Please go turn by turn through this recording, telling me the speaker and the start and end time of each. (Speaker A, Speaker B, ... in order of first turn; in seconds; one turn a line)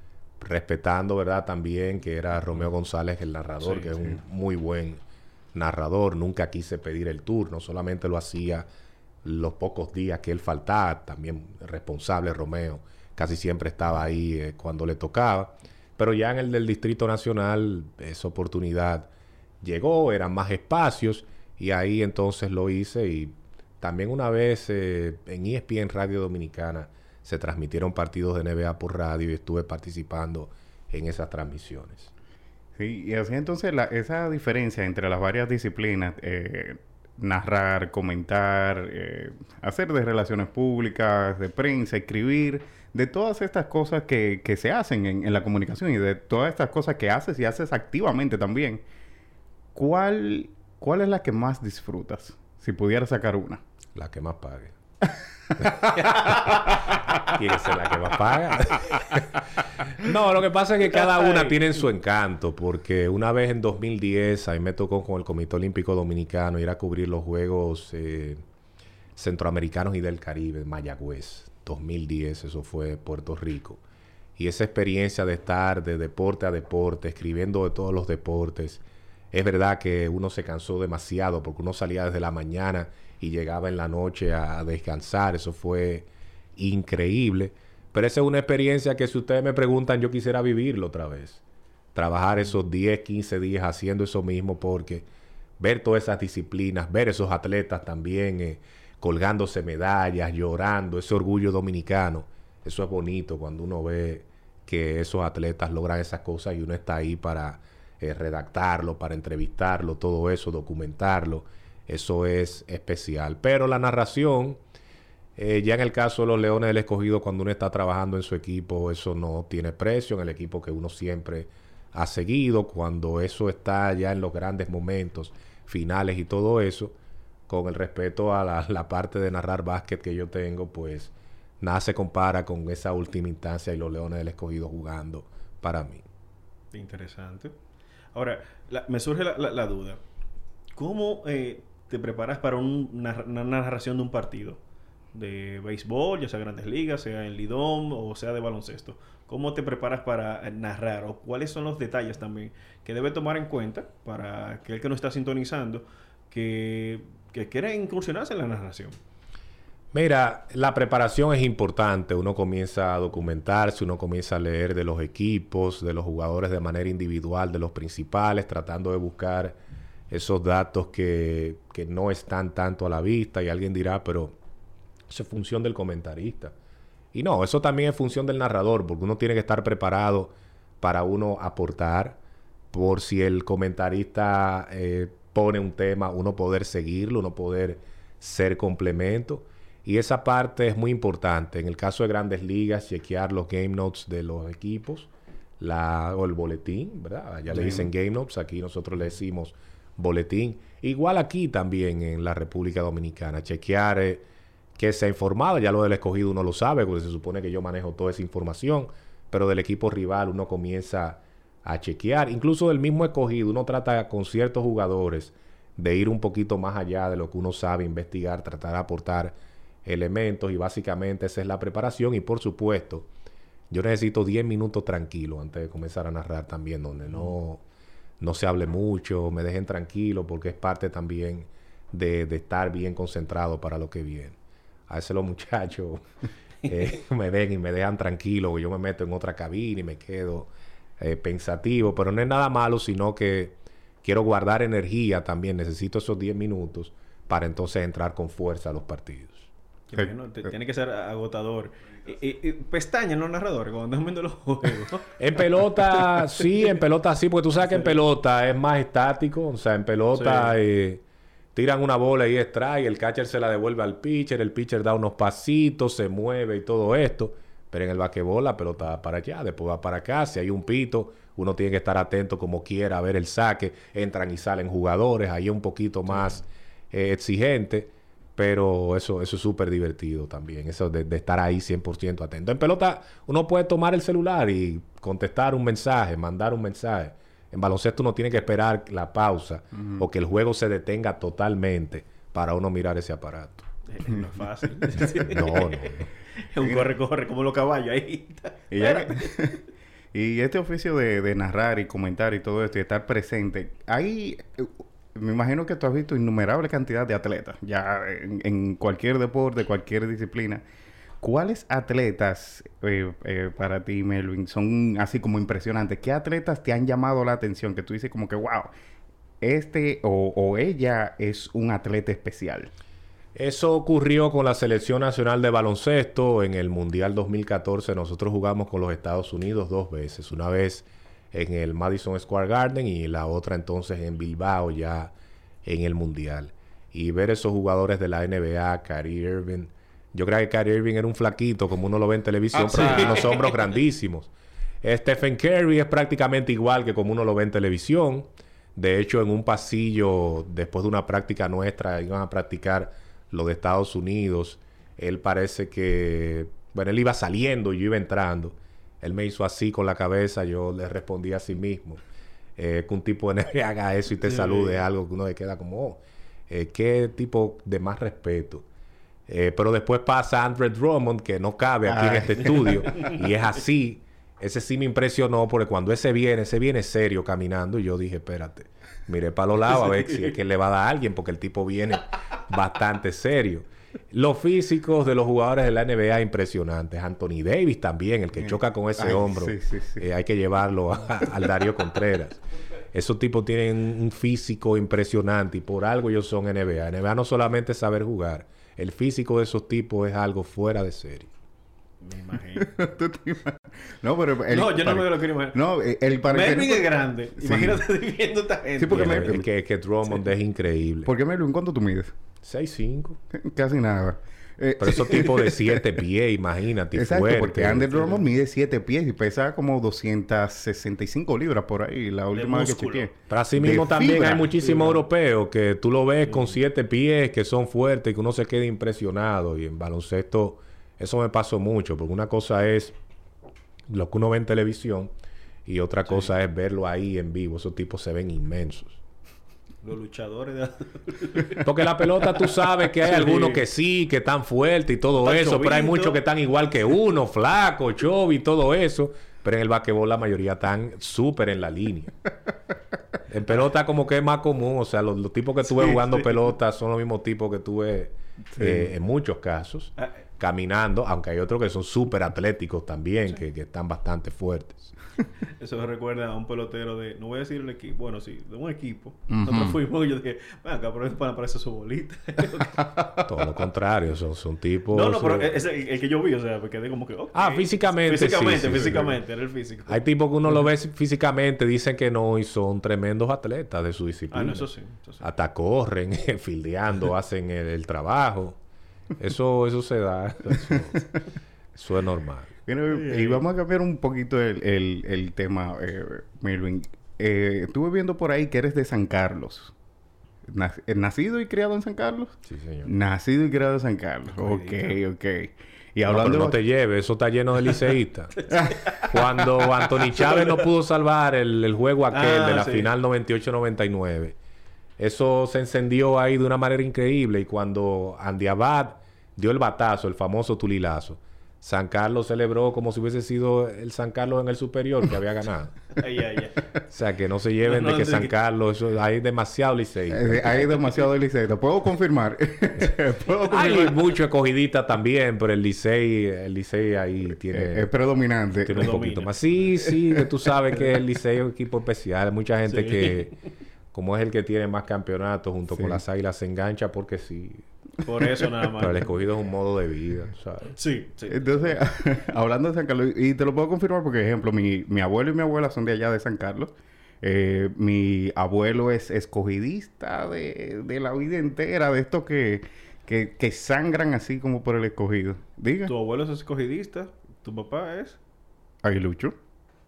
Speaker A: 0.4-5.0
Speaker B: 3.6-4.1
Speaker A: 5.5-8.7
Speaker A: 9.2-19.1
Speaker A: 19.6-32.1
Speaker C: 32.8-48.8
Speaker C: 49.8-53.6
Speaker A: 54.0-54.8
Speaker B: 56.0-56.6
Speaker A: 57.2-68.4
Speaker B: 61.1-61.6
Speaker A: 69.2-73.8
Speaker A: 74.4-91.4
Speaker A: 92.0-95.1
Speaker A: 95.6-114.6
Speaker A: 115.4-126.9
Speaker A: 127.5-136.1
Speaker B: 136.7-137.5
Speaker B: 138.1-140.0
Speaker B: 140.8-144.6
Speaker B: 145.1-159.0
Speaker A: 159.9-169.6
Speaker A: 170.1-174.3
Speaker A: 175.1-176.6
Speaker A: 177.1-182.2
Speaker A: 182.7-204.2
Speaker A: 204.8-223.1
Speaker A: 223.7-227.6
Speaker A: 228.2-234.4
Speaker A: 234.9-236.0
Speaker A: 236.7-249.5
Speaker B: 249.9-255.1
Speaker A: 255.2-261.0
Speaker B: 260.1-260.6
Speaker A: 261.6-293.6
Speaker C: 289.7-290.1
Speaker B: 293.9-299.4
Speaker A: 295.1-296.1
Speaker C: 296.6-296.9
Speaker C: 298.7-299.6
Speaker C: 300.1-310.6
Speaker C: 311.2-318.7
Speaker C: 319.4-322.7
Speaker A: 323.4-335.1
Speaker A: 335.6-344.3
Speaker C: 342.7-343.2
Speaker B: 342.7-343.3
Speaker A: 344.8-362.0
Speaker A: 362.6-368.6
Speaker B: 364.2-364.8
Speaker A: 369.3-392.4
Speaker C: 371.9-372.8
Speaker B: 372.6-373.2
Speaker C: 388.4-390.1
Speaker A: 392.9-401.3
Speaker B: 402.0-402.7
Speaker C: 402.6-407.8
Speaker B: 404.5-405.6
Speaker B: 406.3-409.4
Speaker C: 408.8-409.5
Speaker A: 408.9-411.1
Speaker C: 411.1-412.1
Speaker A: 412.4-413.2
Speaker C: 413.3-415.8
Speaker A: 414.8-418.1
Speaker C: 416.9-424.8
Speaker B: 422.3-423.1
Speaker A: 423.3-433.0
Speaker B: 424.6-425.0
Speaker A: 433.9-435.1
Speaker A: 435.7-439.0
Speaker B: 439.8-443.6
Speaker A: 441.6-452.1
Speaker B: 445.2-446.2
Speaker A: 453.3-464.9
Speaker B: 455.6-456.5
Speaker C: 458.6-458.9
Speaker B: 465.6-473.0
Speaker C: 469.3-469.8
Speaker A: 473.3-475.5
Speaker B: 474.9-480.0
Speaker A: 477.3-479.2
Speaker A: 479.9-484.7
Speaker B: 484.3-485.3
Speaker A: 485.2-488.6
Speaker A: 489.2-491.1
Speaker A: 491.8-492.5
Speaker C: 492.7-499.7
Speaker B: 492.9-493.4
Speaker C: 500.5-506.6
Speaker A: 502.5-502.9
Speaker B: 504.3-504.9
Speaker A: 506.1-508.4
Speaker B: 508.4-510.6
Speaker A: 509.0-514.4
Speaker B: 512.1-512.9
Speaker A: 515.0-525.8
Speaker B: 526.0-526.7
Speaker A: 526.9-530.4
Speaker B: 527.6-528.3
Speaker C: 530.1-534.0
Speaker A: 533.5-537.9
Speaker C: 537.5-539.0
Speaker A: 538.6-543.3
Speaker B: 538.7-539.6
Speaker B: 542.7-543.3
Speaker A: 543.9-547.6
Speaker C: 545.8-546.0
Speaker B: 548.0-549.1
Speaker A: 548.8-550.8
Speaker B: 550.7-551.8
Speaker C: 551.3-565.9
Speaker B: 565.9-568.2
Speaker C: 568.8-569.4